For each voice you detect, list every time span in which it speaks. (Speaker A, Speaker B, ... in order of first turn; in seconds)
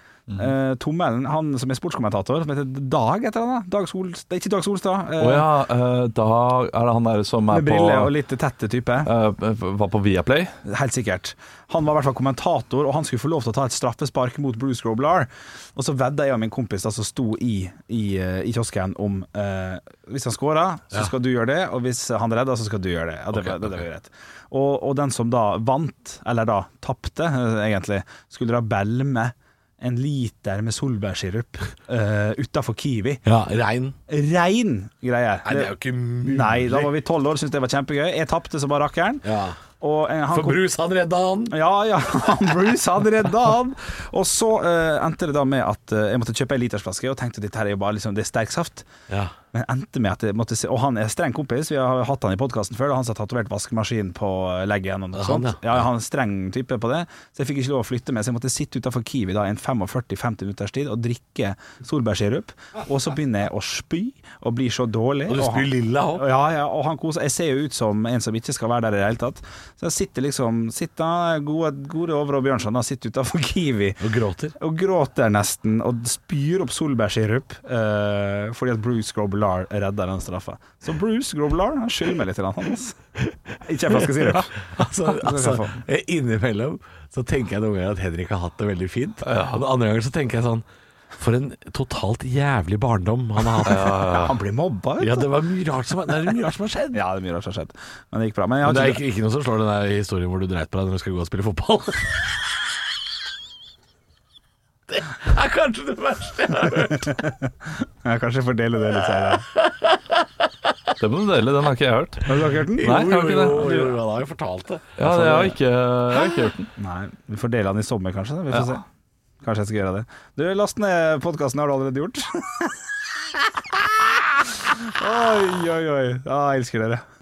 Speaker A: 0.4-5.5, 7.5-9.1, 10.6-33.2, 34.1-39.2, 39.8-40.6, 41.5-48.9, 49.5-74.0, 74.6-83.0, 83.6-85.8, 93.7-95.3, 96.9-99.0, 107.0-109.5, 112.2-113.9, 115.0-115.6, 116.8-118.8, 119.4-122.8, 123.3-127.0
Speaker B: 5.2-8.1, 9.0-10.5, 89.2-89.6, 93.6-94.4, 111.0-113.8, 115.0-116.7
Speaker C: 33.2-34.0, 35.4-36.9, 39.2-39.6, 40.3-41.6, 55.1-55.9, 65.3-66.2, 74.0-74.5, 83.2-90.6, 91.2-94.1, 95.0-97.0, 98.6-102.4, 104.9-107.3, 109.4-110.5, 112.7-115.0